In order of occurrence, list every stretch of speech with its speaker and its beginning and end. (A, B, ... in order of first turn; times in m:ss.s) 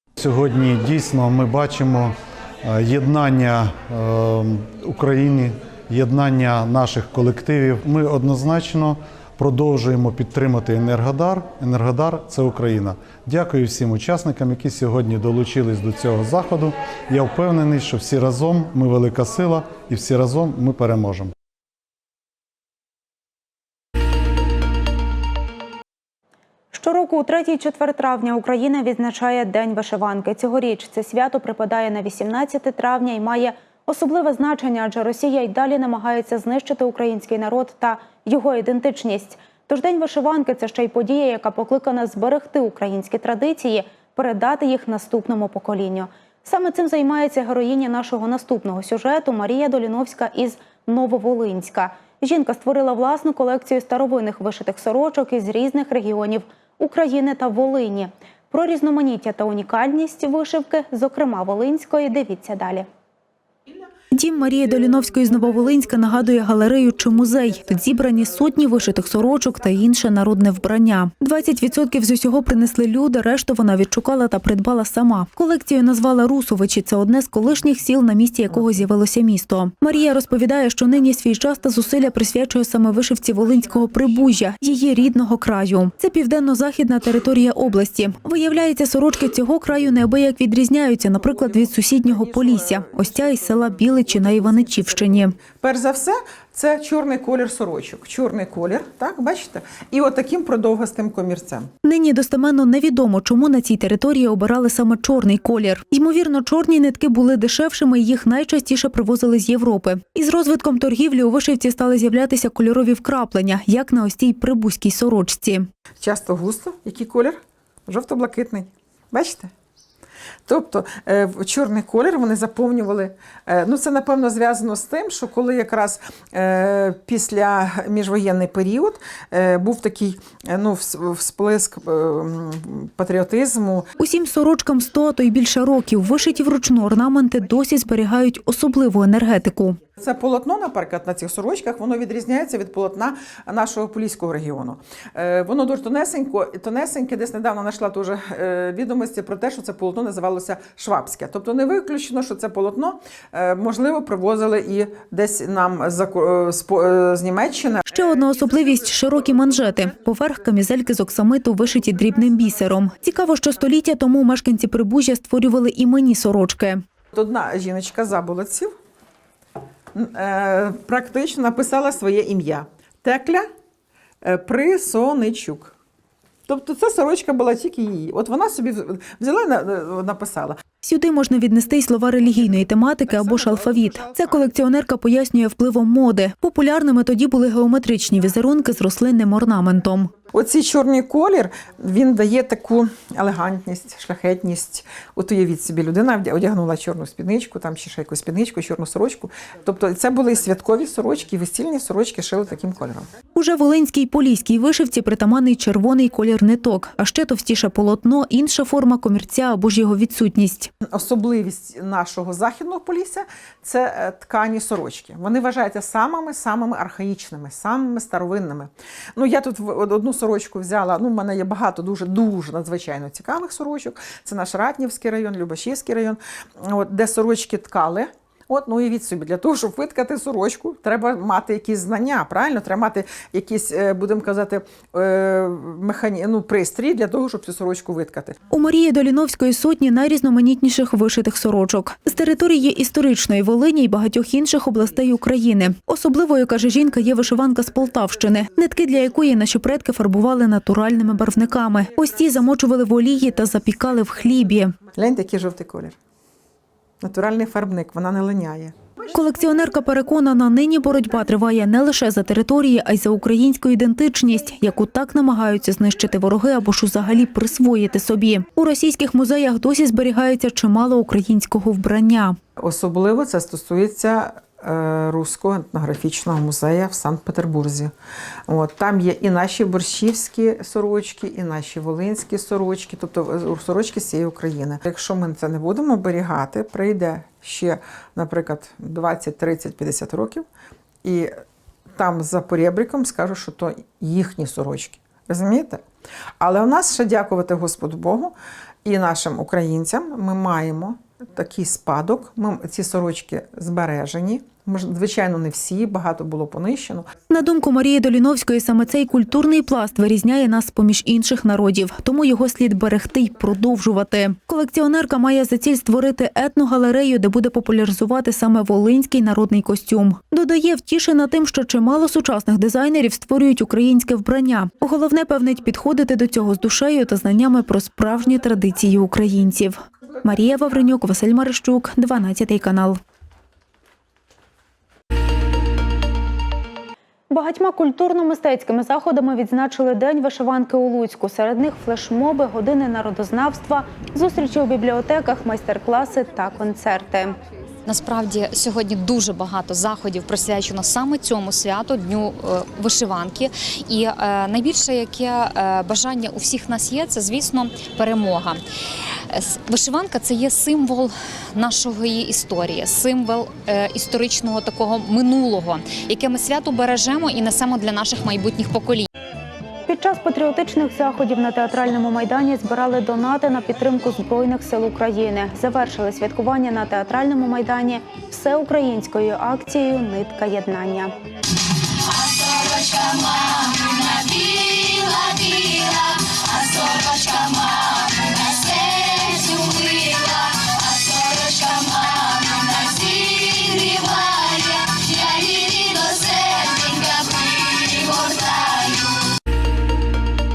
0:00.2-0:21.3 A
0:26.7-1:02.8 B
1:04.1-1:35.4 C
1:31.2-1:41.7 D
1:41.8-1:55.7 C
1:56.0-1:59.5 D
2:00.5-2:13.9 D
2:14.0-2:19.8 C
2:20.0-2:38.0 D
2:37.9-2:46.8 C
2:47.1-2:48.7 D
2:49.9-2:53.5 D
2:54.2-2:55.7 D
2:56.5-3:00.6 D
3:00.8-3:10.1 C
3:03.7-3:04.1 D
3:10.3-3:23.1 D
3:23.3-3:30.7 C
3:30.9-3:58.4 D
3:58.5-4:14.8 C
4:14.9-4:16.0 D
4:17.0-4:18.8 D
4:19.1-4:32.4 C
4:32.6-4:37.9 D
4:38.5-4:50.4 D
4:51.0-4:51.4 D
4:51.9-4:55.8 D
4:56.4-5:07.1 D
5:07.3-5:33.0 C
5:37.3-5:47.4 B
5:47.8-5:58.6 E
5:59.3-6:09.1 E
6:09.9-6:21.1 B
6:22.1-6:39.2 F